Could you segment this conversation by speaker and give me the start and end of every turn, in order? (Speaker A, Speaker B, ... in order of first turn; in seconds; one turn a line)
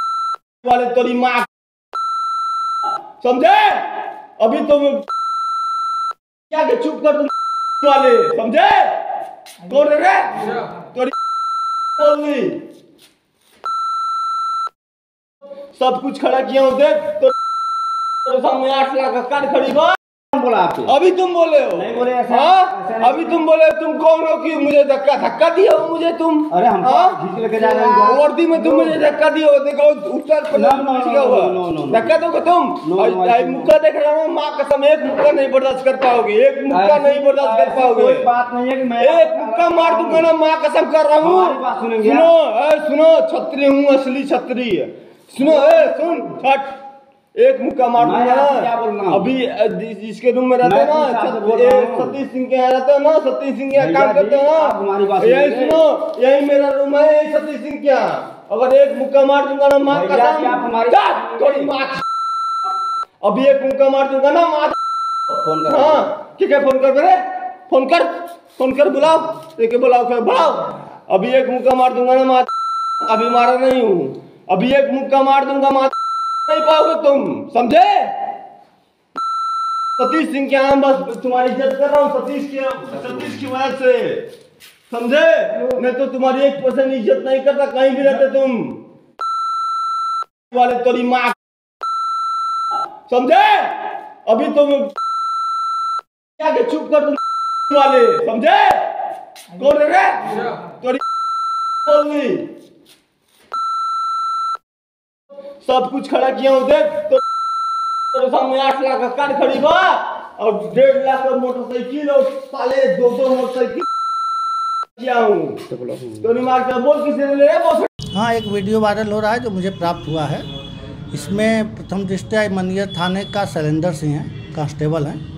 Speaker A: 0.6-1.5
Speaker A: 3.2-5.1
Speaker A: 6.5-9.0
Speaker A: 9.7-11.2
Speaker A: 12.0-12.6
Speaker A: 15.8-17.3
Speaker A: 18.2-20.0
Speaker B: 20.3-20.9
Speaker A: 20.9-38.3
Speaker B: 21.8-23.4
Speaker B: 26.5-29.0
Speaker B: 30.5-32.1
Speaker B: 32.8-33.7
Speaker B: 36.7-40.3
Speaker A: 39.0-46.7
Speaker B: 41.2-42.3
Speaker B: 45.4-46.4
Speaker A: 47.4-62.0
Speaker B: 48.0-49.3
Speaker B: 50.6-52.1
Speaker B: 53.7-55.8
Speaker B: 59.9-61.7
Speaker A: 63.2-64.8
Speaker B: 65.3-66.0
Speaker A: 65.7-72.5
Speaker A: 73.0-75.9
Speaker A: 76.5-78.3
Speaker A: 80.0-84.3
Speaker A: 84.9-88.8
Speaker A: 90.5-91.4
Speaker A: 93.1-94.9
Speaker A: 96.4-98.8
Speaker A: 99.5-101.0
Speaker A: 101.8-102.5
Speaker A: 105.6-107.2
Speaker A: 108.1-113.9
Speaker A: 115.0-115.6
Speaker A: 116.2-117.9
Speaker C: 118.1-120.5
Speaker C: 121.1-125.2